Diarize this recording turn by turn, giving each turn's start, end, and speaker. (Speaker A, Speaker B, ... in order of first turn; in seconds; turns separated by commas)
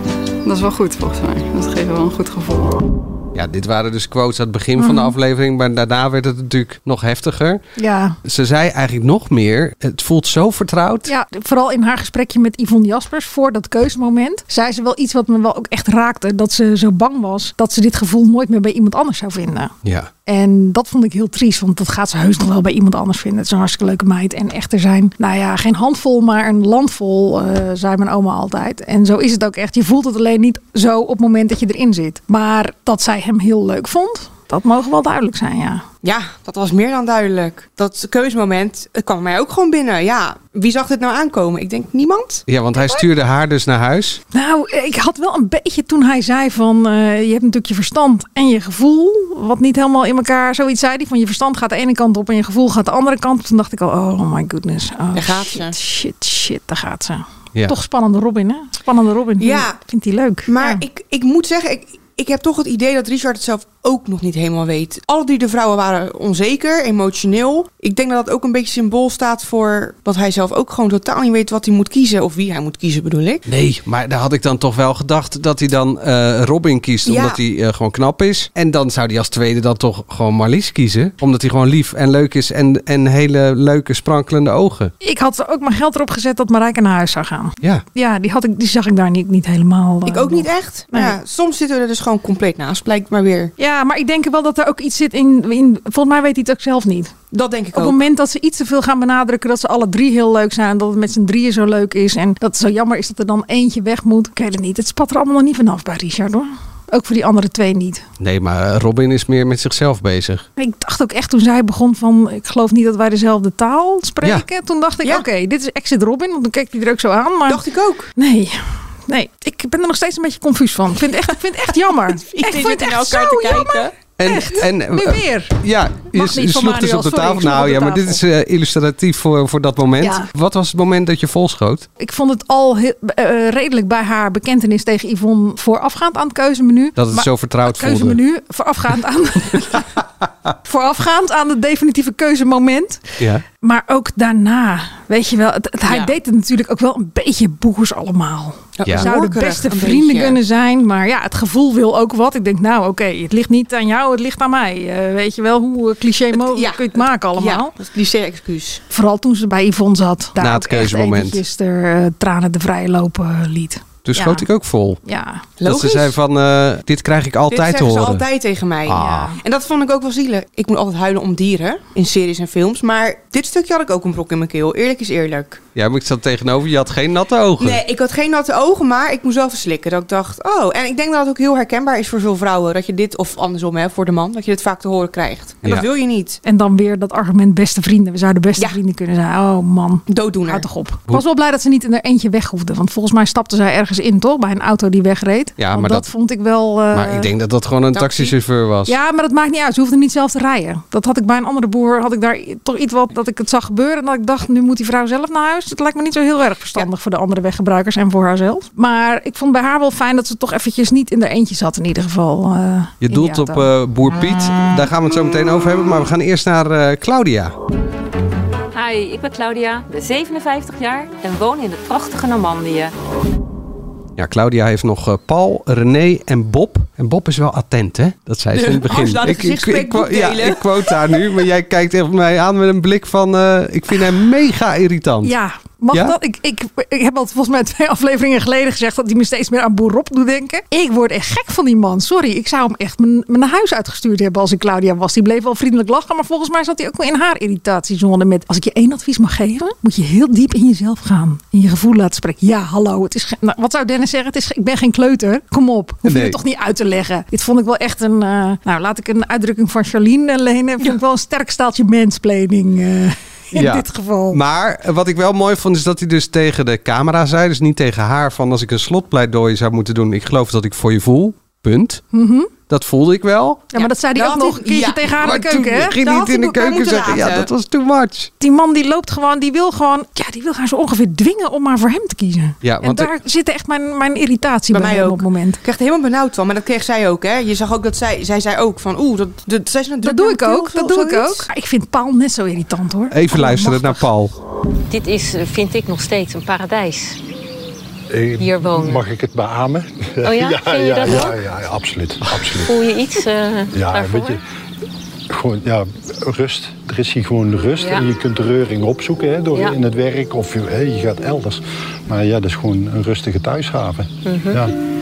Speaker A: 0.5-2.8, Speaker B: 3.4-7.6, Speaker C: 4.8-5.1, Speaker C: 7.8-8.2, Speaker B: 8.2-11.1, Speaker C: 11.1-19.7, Speaker B: 19.8-20.1, Speaker C: 20.3-35.9, Speaker D: 36.0-42.5, Speaker B: 42.5-44.2, Speaker C: 44.3-60.8, Speaker D: 55.1-55.8, Speaker D: 59.4-59.8, Speaker D: 60.5-73.4, Speaker B: 73.5-84.9, Speaker D: 77.1-77.4, Speaker C: 85.0-91.2, Speaker D: 90.1-93.5, Speaker C: 93.6-97.1, Speaker D: 97.3-98.0, Speaker C: 97.7-108.0, Speaker B: 108.2-110.5, Speaker C: 110.6-117.6, Speaker D: 117.5-118.1, Speaker C: 118.2-128.2, Speaker D: 122.1-124.0, Speaker B: 124.2-131.9, Speaker C: 130.0-130.3, Speaker C: 132.0-139.9, Speaker B: 137.0-138.2, Speaker C: 140.7-157.7, Speaker B: 143.2-143.4, Speaker D: 145.9-146.2, Speaker D: 148.8-150.4, Speaker D: 156.3-158.8, Speaker C: 158.9-164.5, Speaker B: 160.4-161.4, Speaker B: 164.1-165.0, Speaker C: 165.1-165.5, Speaker D: 165.6-166.2, Speaker B: 165.6-168.2, Speaker D: 167.5-175.6, Speaker B: 168.9-169.3, Speaker C: 168.9-169.4, Speaker B: 175.8-177.8, Speaker D: 177.6-186.4, Speaker C: 186.4-197.3, Speaker D: 190.1-190.7, Speaker B: 195.6-196.1, Speaker B: 196.9-199.0, Speaker D: 197.9-198.3, Speaker C: 198.9-213.7, Speaker B: 213.0-217.5, Speaker E: 218.7-222.9, Speaker B: 224.2-235.3, Speaker D: 228.6-231.3, Speaker C: 235.2-264.4, Speaker B: 256.1-256.4, Speaker B: 263.6-272.0, Speaker C: 272.1-272.5, Speaker B: 272.7-273.7, Speaker C: 273.7-276.1, Speaker D: 273.8-275.2, Speaker B: 275.2-278.3, Speaker D: 276.0-277.5, Speaker C: 278.4-285.6, Speaker B: 282.6-283.1, Speaker D: 284.7-291.5, Speaker C: 290.0-294.1, Speaker B: 293.1-294.3, Speaker E: 294.9-297.2, Speaker F: 298.1-302.9, Speaker E: 298.4-299.0, Speaker E: 300.2-301.4, Speaker E: 302.3-304.4, Speaker F: 303.7-304.4, Speaker F: 305.3-314.7, Speaker E: 307.8-308.1, Speaker E: 314.2-314.7